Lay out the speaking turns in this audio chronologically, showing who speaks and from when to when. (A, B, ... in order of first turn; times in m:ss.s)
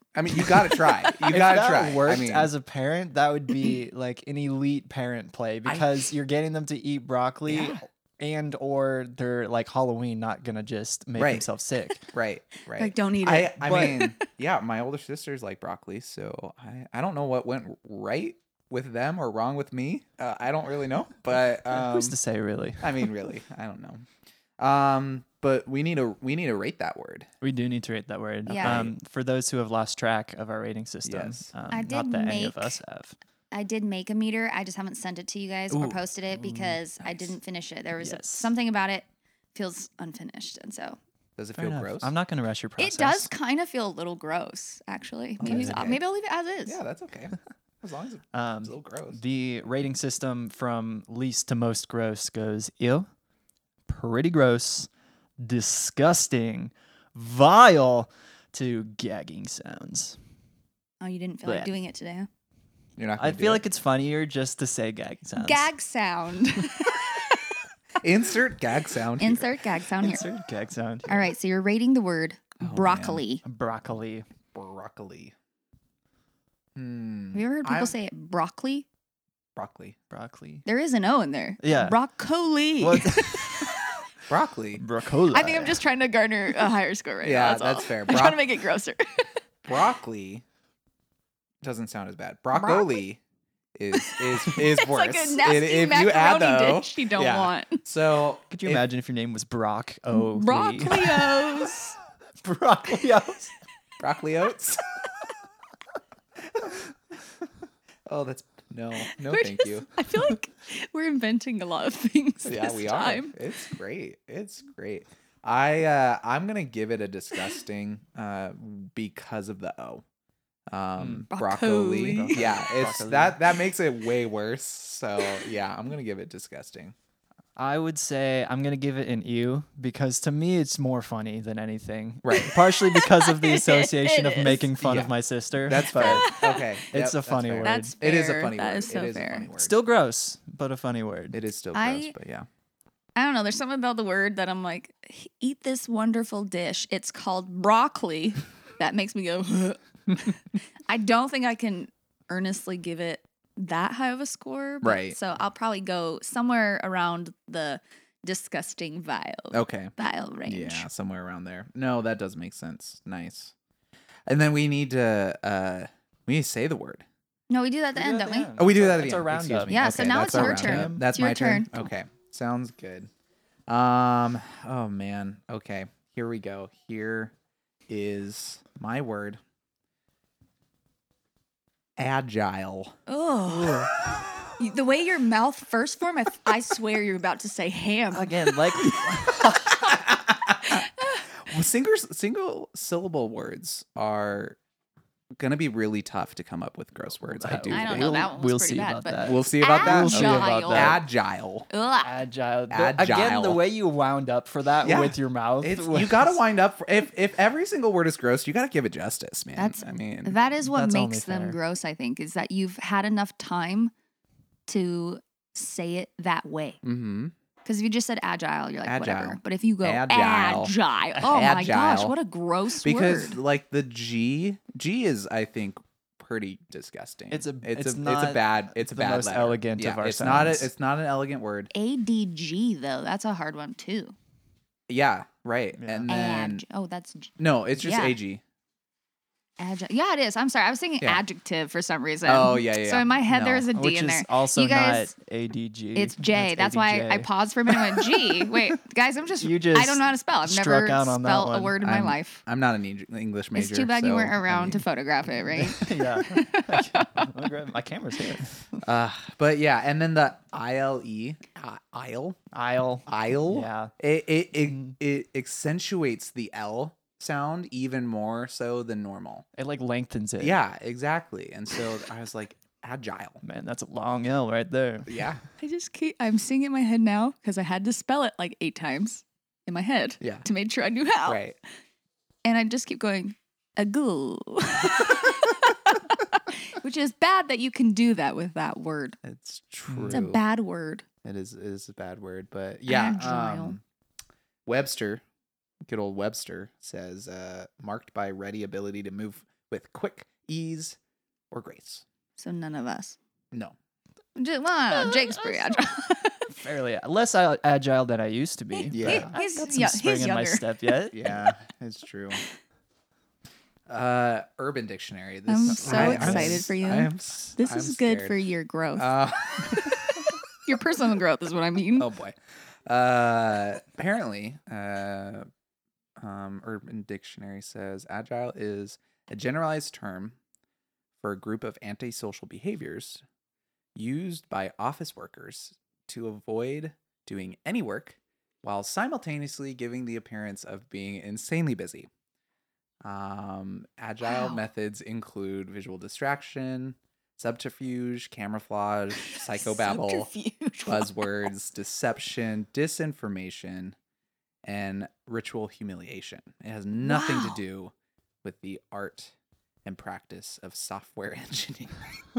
0:00.2-0:02.5 A
0:00.3-0:00.8 B
0:01.3-0:12.1 C
0:05.7-0:06.1 A
0:07.5-0:07.9 A
0:11.2-0:11.5 A
0:12.1-0:22.2 A
0:12.8-0:14.3 B
0:21.7-0:23.1 C
0:22.8-0:24.1 A
0:24.6-0:27.3 A
0:27.4-0:33.2 C
0:28.5-0:28.9 B
0:28.6-0:28.9 A
0:31.0-0:31.5 A
0:31.7-0:32.8 B
0:33.5-0:41.0 B
0:35.7-0:36.0 A
0:36.3-0:36.8 C
0:37.0-0:37.4 A
0:38.0-0:38.5 C
0:41.4-0:42.1 A
0:41.6-0:43.3 C
0:42.8-0:46.8 B
0:45.4-0:46.0 A
0:45.4-0:46.0 C
0:46.7-0:49.2 A
0:48.3-0:53.1 C
0:53.9-0:54.9 C
0:55.4-1:00.2 C
1:01.0-1:02.3 B
1:01.5-1:01.7 C
1:03.0-1:03.6 A
1:03.2-1:05.7 C
1:05.4-1:07.6 B
1:08.0-1:09.6 A
1:09.2-1:10.2 B
1:10.0-1:11.3 C
1:11.1-1:13.4 B
1:12.6-1:13.2 A
1:13.4-1:14.3 C
1:14.5-1:15.3 A
1:16.8-1:18.0 A
1:17.3-1:18.9 B
1:19.6-1:20.0 A
1:20.1-1:20.6 C
1:20.7-1:24.0 B
1:21.6-1:22.0 C
1:22.8-1:23.8 C
1:24.3-1:24.8 A
1:24.8-1:25.8 C
1:25.3-1:29.3 B
1:27.2-1:28.5 A
1:29.6-1:30.4 A
1:31.6-1:33.2 A
1:32.5-1:33.0 B
1:33.8-1:38.8 A
1:33.9-1:37.8 B
1:38.5-1:41.6 C
1:40.1-1:42.0 B
1:42.4-1:43.5 C
1:44.0-1:44.8 A
1:48.1-1:50.0 A
1:49.1-1:53.4 B
1:52.4-2:00.0 A
2:00.7-2:07.0 A
2:01.0-2:01.3 C
2:01.3-2:02.5 B
2:02.1-2:03.4 C
2:07.6-2:16.3 C
2:12.2-2:12.6 A
2:12.4-2:14.7 B
2:14.8-2:15.1 A
2:15.7-2:19.8 A
2:15.8-2:16.7 B
2:16.9-2:17.9 C
2:17.6-2:19.5 B
2:19.5-2:21.4 C
2:21.3-2:22.5 A
2:21.7-2:22.1 B
2:23.2-2:30.4 B
2:30.9-2:40.9 B
2:34.8-2:35.2 A
2:39.5-2:39.9 A
2:40.4-2:43.5 A
2:44.3-2:47.0 A
2:47.5-2:48.5 B
2:47.9-2:51.1 C
2:48.6-2:53.1 A
2:49.7-2:51.7 B
2:53.7-2:57.3 A
2:57.9-2:59.4 A
3:02.0-3:03.0 A
3:03.1-3:03.9 B
3:04.6-3:09.0 B
3:08.1-3:10.0 C
3:10.4-3:10.8 A
3:10.6-3:11.3 B
3:11.5-3:14.6 A
3:15.4-3:18.1 A
3:17.3-3:21.0 C
3:17.7-3:21.0 B
3:19.2-3:21.7 A
3:21.7-3:22.1 B
3:22.0-3:26.4 C
3:22.7-3:23.6 A
3:24.8-3:30.4 A
3:29.6-3:33.9 B
3:30.6-3:31.6 C
3:34.7-3:36.8 B
3:36.8-3:37.3 A
3:37.6-3:43.4 B
3:38.8-3:42.2 A
3:42.8-3:51.7 A
3:47.3-3:50.7 C
3:51.7-3:54.2 B
3:54.9-3:56.6 A
3:55.8-3:56.2 C
3:56.1-3:58.2 B
3:57.4-3:58.4 A
3:59.6-4:05.1 B
4:02.2-4:03.7 A
4:03.7-4:07.3 C
4:06.0-4:12.4 B
4:09.4-4:11.8 C
4:11.8-4:14.8 A
4:13.6-4:17.3 B
4:15.5-4:18.8 C
4:18.8-4:22.4 A
4:22.5-4:23.9 C
4:23.1-4:29.4 A
4:24.7-4:25.0 C
4:29.6-4:30.6 C
4:30.4-4:33.4 A
4:33.4-4:35.3 C
4:35.1-4:35.4 A
4:35.6-4:41.4 B
4:40.2-4:40.5 A
4:41.3-4:41.6 A
4:42.4-4:49.2 B
4:49.2-4:50.4 A
4:49.9-4:50.2 C
4:50.1-4:51.0 B
4:51.2-4:53.8 A
4:52.9-4:53.8 B
4:54.7-4:55.2 A
4:55.9-5:01.0 A
5:01.5-5:02.0 A
5:02.4-5:03.2 B
5:04.4-5:06.5 B
5:06.5-5:11.3 C
5:08.7-5:11.0 B
5:08.9-5:09.3 A
5:11.1-5:12.4 A
5:13.9-5:18.4 A
5:15.5-5:19.1 B
5:15.7-5:16.8 C
5:19.0-5:20.0 A
5:19.7-5:22.1 B
5:22.0-5:25.5 A
5:26.2-5:30.4 A
5:31.2-5:33.2 A
5:34.0-5:42.1 A
5:43.0-5:50.3 A
5:44.2-5:44.6 B
5:49.2-5:51.5 B
5:50.9-5:54.0 A
5:54.6-5:57.9 A
5:57.0-5:57.6 B
5:58.4-5:59.3 A
5:59.8-6:02.0 A